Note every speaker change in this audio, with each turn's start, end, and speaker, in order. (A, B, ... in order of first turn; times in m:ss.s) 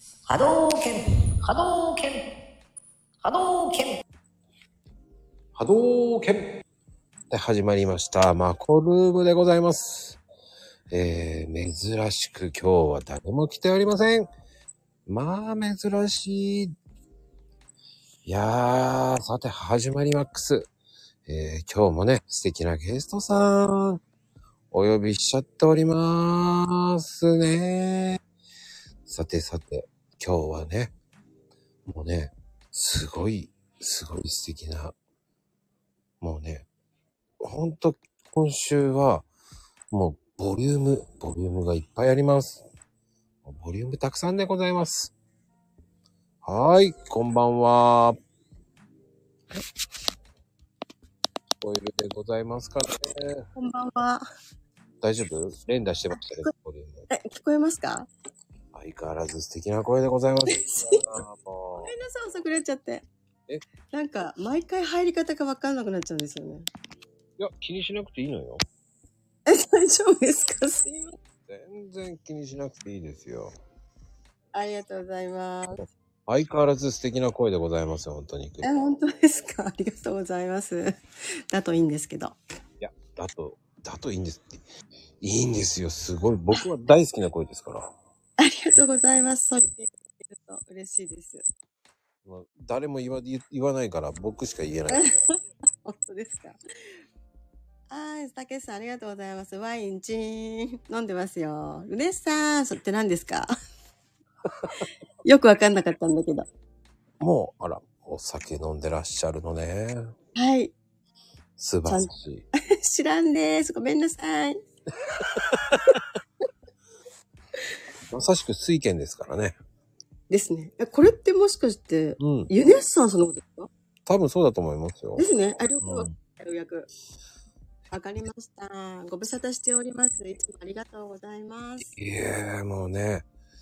0:00.3-0:02.2 A
0:03.2-0:04.0 A
0:05.6-0:06.5 B
0:07.3-0:10.2 B
0:10.9-0:14.3 B
0:15.1-0:16.7 B
0:18.2-0:20.7 B
0:21.2-0:24.0 B
0:24.7-0:28.2 B
0:29.0-0:30.9 B
0:31.9-0:35.0 B
0:36.2-0:36.7 B
0:37.4-0:39.3 B
0:39.9-0:42.6 B
0:43.4-0:45.1 B
0:46.4-0:48.2 B
0:51.6-0:53.4 B
0:53.6-0:54.2 C
0:55.0-0:57.1 B
0:57.1-0:58.1 C
0:58.7-1:01.9 B
1:00.5-1:01.0 C
1:01.8-1:03.1 C
1:03.9-1:06.6 C
1:07.4-1:08.6 B
1:09.5-1:11.2 C
1:11.5-1:13.5 B
1:14.5-1:15.8 C
1:16.3-1:18.7 B
1:18.6-1:21.0 C
1:21.5-1:22.4 C
1:22.8-1:24.6 B
1:25.2-1:27.9 B
1:28.4-1:31.4 C
1:32.2-1:35.1 B
1:34.9-1:35.2 C
1:35.8-1:36.6 C
1:37.9-1:43.5 C
1:45.2-1:46.5 C
1:47.2-1:50.1 B
1:50.3-1:50.7 C
1:51.6-1:52.4 B
1:51.8-1:54.6 C
1:58.1-1:59.6 B
2:00.3-2:03.7 C
2:02.2-2:02.5 B
2:04.1-2:05.2 B
2:05.2-2:06.9 C
2:05.8-2:06.1 B
2:07.9-2:11.9 C
2:12.0-2:13.2 B